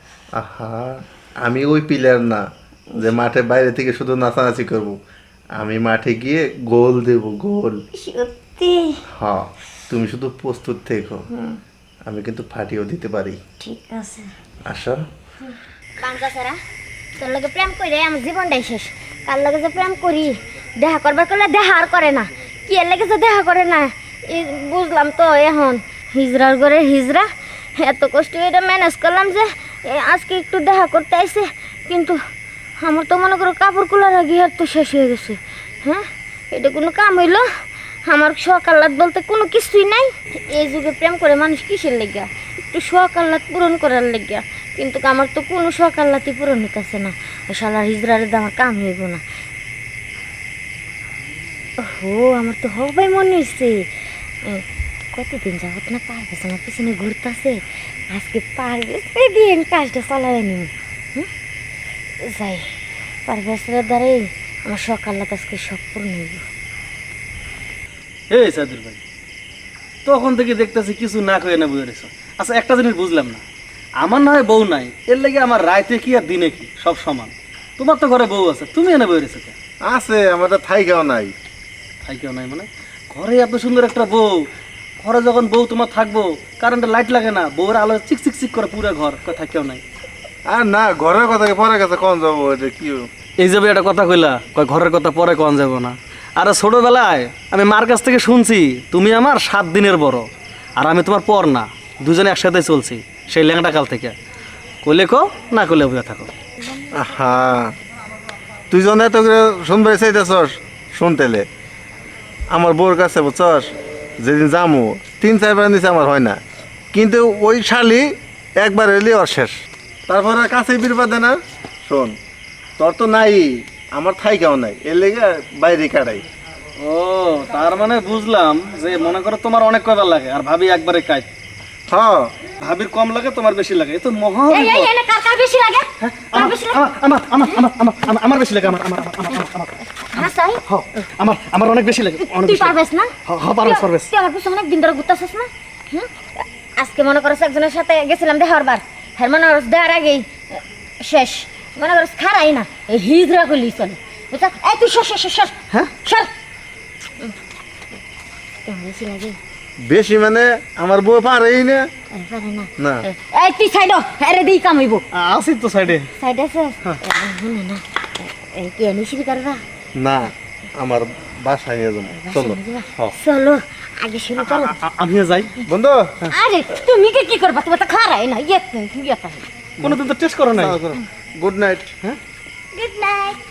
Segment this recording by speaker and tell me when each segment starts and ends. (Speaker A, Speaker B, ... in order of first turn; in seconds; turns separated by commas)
Speaker A: 0.3-2.4, Speaker A: 3.0-5.0, Speaker A: 5.6-7.8, Speaker B: 7.9-9.0, Speaker A: 9.1-11.3, Speaker B: 11.3-11.6, Speaker A: 12.1-13.4, Speaker B: 13.6-14.3, Speaker A: 14.7-15.0, Speaker B: 15.5-16.6, Speaker B: 17.2-32.2, Speaker B: 32.8-37.5, Speaker B: 38.0-49.2, Speaker B: 51.8-53.9, Speaker B: 54.4-61.3, Speaker B: 62.2-62.7, Speaker B: 63.2-66.5, Speaker C: 68.3-69.0, Speaker C: 70.0-73.4, Speaker C: 74.0-79.5, Speaker A: 79.8-81.3, Speaker C: 82.0-84.4, Speaker C: 85.0-89.8, Speaker A: 90.5-93.1, Speaker C: 93.4-104.1, Speaker C: 104.8-106.3, Speaker A: 106.9-107.7, Speaker A: 108.7-111.5, Speaker A: 112.5-116.4, Speaker A: 116.9-122.2, Speaker A: 122.8-126.2, Speaker C: 126.8-131.3, Speaker A: 131.9-132.3, Speaker C: 132.6-134.9, Speaker B: 134.5-136.9, Speaker C: 136.0-142.8, Speaker B: 140.1-140.6, Speaker B: 142.2-156.3, Speaker C: 143.2-144.1, Speaker B: 158.7-159.4, Speaker A: 159.8-161.9, Speaker B: 162.1-165.0, Speaker A: 162.8-163.0, Speaker C: 165.1-166.1, Speaker B: 166.1-169.6, Speaker A: 169.9-173.2, Speaker B: 172.1-174.8, Speaker C: 174.4-175.5, Speaker A: 175.7-176.2, Speaker B: 176.3-179.5, Speaker C: 179.8-180.8, Speaker A: 180.5-181.9, Speaker B: 182.7-183.4